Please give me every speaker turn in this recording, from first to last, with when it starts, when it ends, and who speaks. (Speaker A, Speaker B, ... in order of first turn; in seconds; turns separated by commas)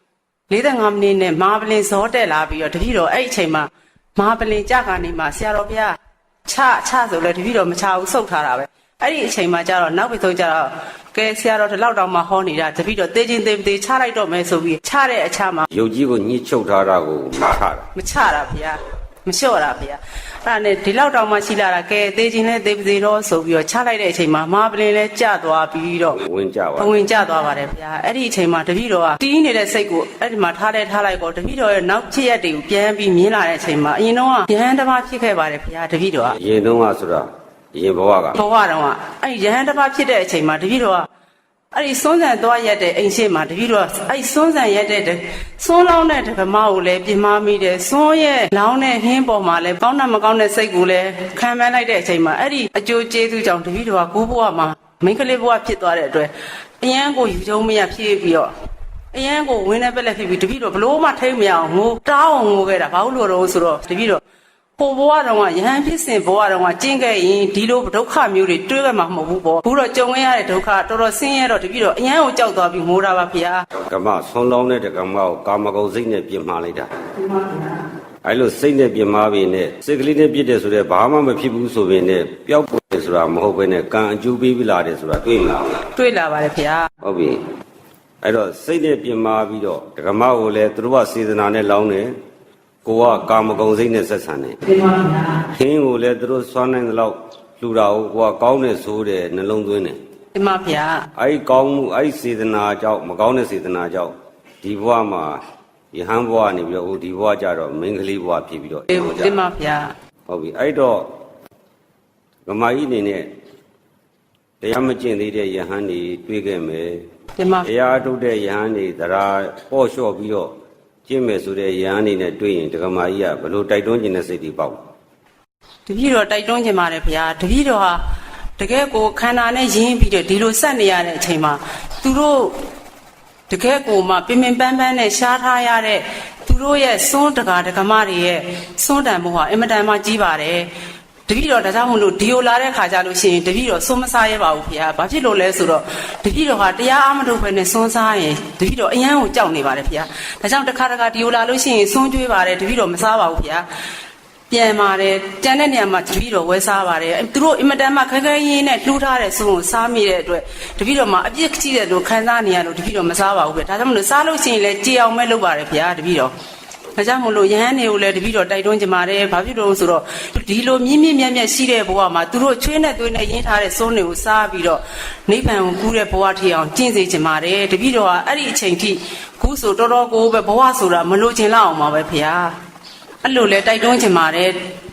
Speaker A: 0.5-15.7, Speaker B: 15.7-17.9, Speaker A: 17.9-26.2, Speaker B: 26.1-26.9, Speaker A: 26.8-36.4, Speaker B: 36.3-38.4, Speaker A: 38.3-41.1, Speaker A: 41.7-58.5, Speaker A: 59.1-64.2, Speaker A: 64.8-73.6, Speaker B: 73.8-76.9, Speaker A: 77.2-77.8, Speaker B: 78.2-85.8, Speaker A: 85.9-86.9, Speaker B: 87.0-87.4, Speaker B: 88.2-92.1, Speaker B: 92.8-94.6, Speaker A: 94.6-95.4, Speaker B: 95.5-100.0, Speaker A: 100.3-101.1, Speaker B: 101.1-105.4, Speaker B: 105.9-109.4, Speaker A: 108.9-109.9, Speaker B: 110.3-111.1, Speaker B: 112.5-113.3, Speaker B: 114.6-117.0, Speaker A: 117.4-117.7, Speaker B: 117.6-120.5, Speaker B: 121.1-124.8, Speaker A: 125.9-128.0, Speaker A: 128.6-132.6, Speaker A: 133.5-140.7, Speaker A: 141.3-153.7, Speaker A: 154.5-166.3, Speaker A: 166.9-182.5, Speaker A: 183.2-184.6